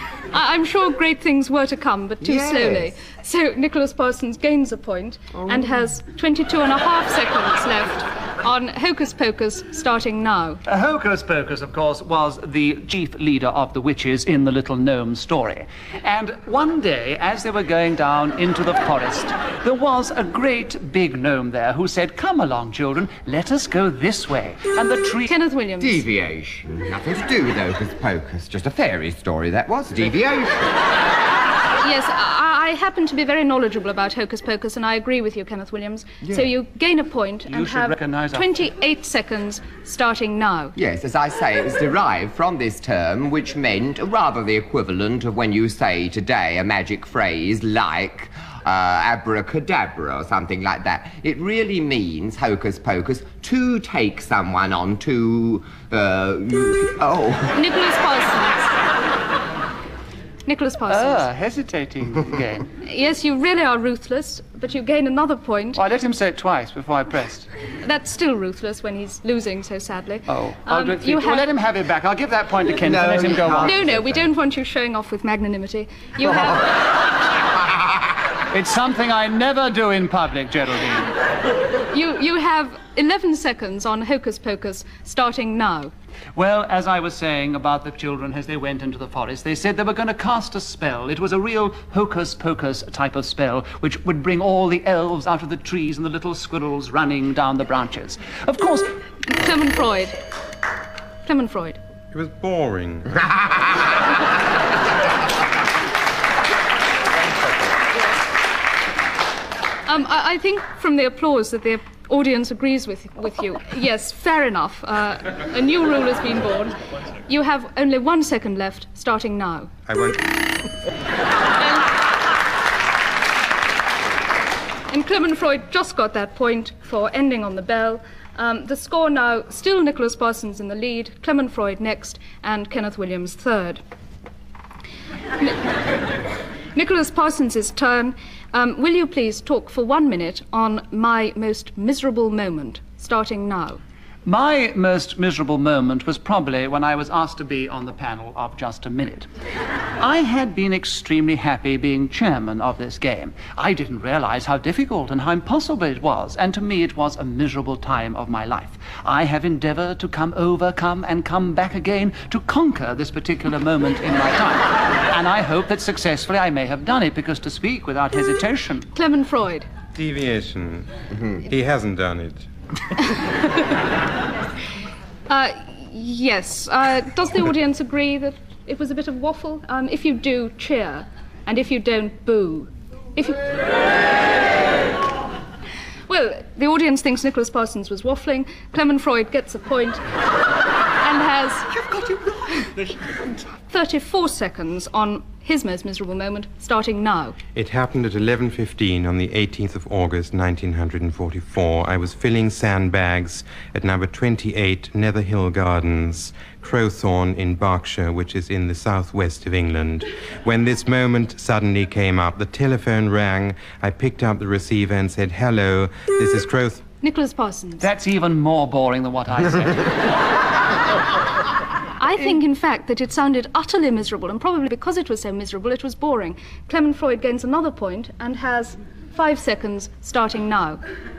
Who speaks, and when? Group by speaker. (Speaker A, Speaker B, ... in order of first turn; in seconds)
Speaker A: 0.3-10.6, 25.3-26.0, 31.8-40.7, 57.5-58.7, 60.5-61.3, 62.8-65.8, 67.8-71.5, 73.6-76.7, 81.9-85.9, 99.3-100.2, 101.2-101.8, 109.9-116.8, 117.3-119.7, 124.9-133.8, 136.7-143.8, 168.9-169.7, 175.3-183.4, 186.1-190.0, 191.0-191.8, 193.7-197.4, 217.0-217.8, 222.0-230.8
Speaker B: 2.2-2.9, 25.8-30.8, 36.2-36.5, 40.8-57.6, 72.8-74.2
Speaker C: 10.7-25.3, 37.5-38.5, 60.9-62.7, 65.8-67.5, 70.3-73.8, 78.5-81.1, 86.3-98.9, 144.2-149.2, 150.0-168.9, 191.8-192.7, 217.8-220.0
Speaker D: 102.1-103.3, 119.9-120.3, 169.9-170.9, 171.4-172.5, 197.5-216.8